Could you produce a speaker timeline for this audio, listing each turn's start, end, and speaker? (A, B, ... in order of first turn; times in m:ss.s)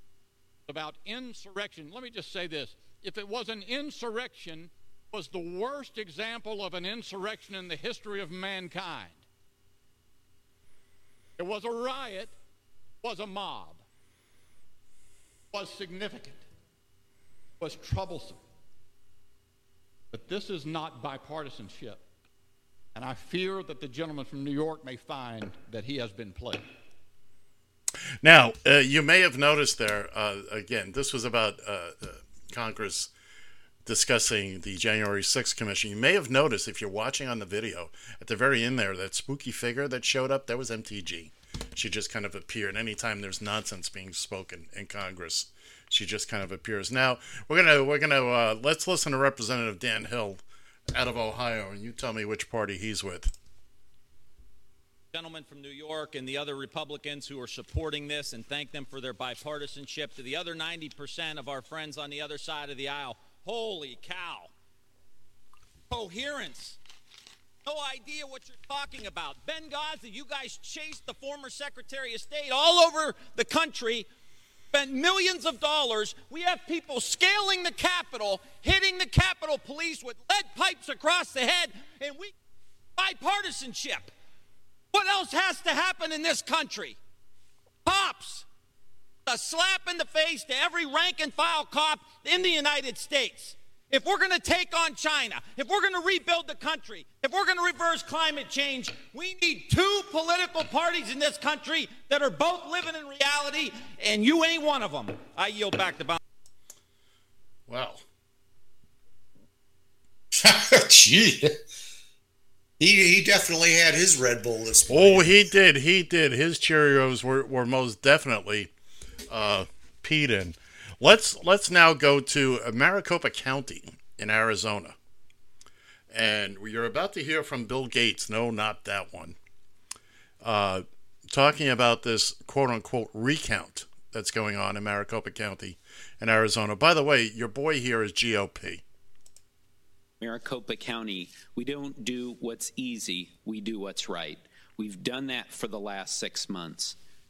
0:00.7-0:09.2 A
0:11.4-0:12.3 A
0:13.0-0:13.8 A
0:15.5-0:16.5 A
0:17.6-0:18.4 A
0:20.1-0:22.0 A
0:22.9-0:26.7 A
0:28.2-0:33.1 B
0:33.8-0:50.4 B
0:50.9-0:53.3 B
0:55.1-1:04.5 C
1:05.9-1:06.8 C
1:07.6-1:14.1 C
1:14.7-1:22.3 C
1:23.0-1:24.1 C
1:24.9-1:27.0 C
1:27.8-1:28.5 C
1:29.3-1:46.2 C
1:47.7-1:48.0 B
1:50.3-1:51.6 D
1:52.8-1:55.3 D
1:54.9-1:58.7 B
1:59.3-2:05.0 B
2:06.1-2:09.4 B
2:10.4-2:18.8 B
2:20.2-2:27.0 E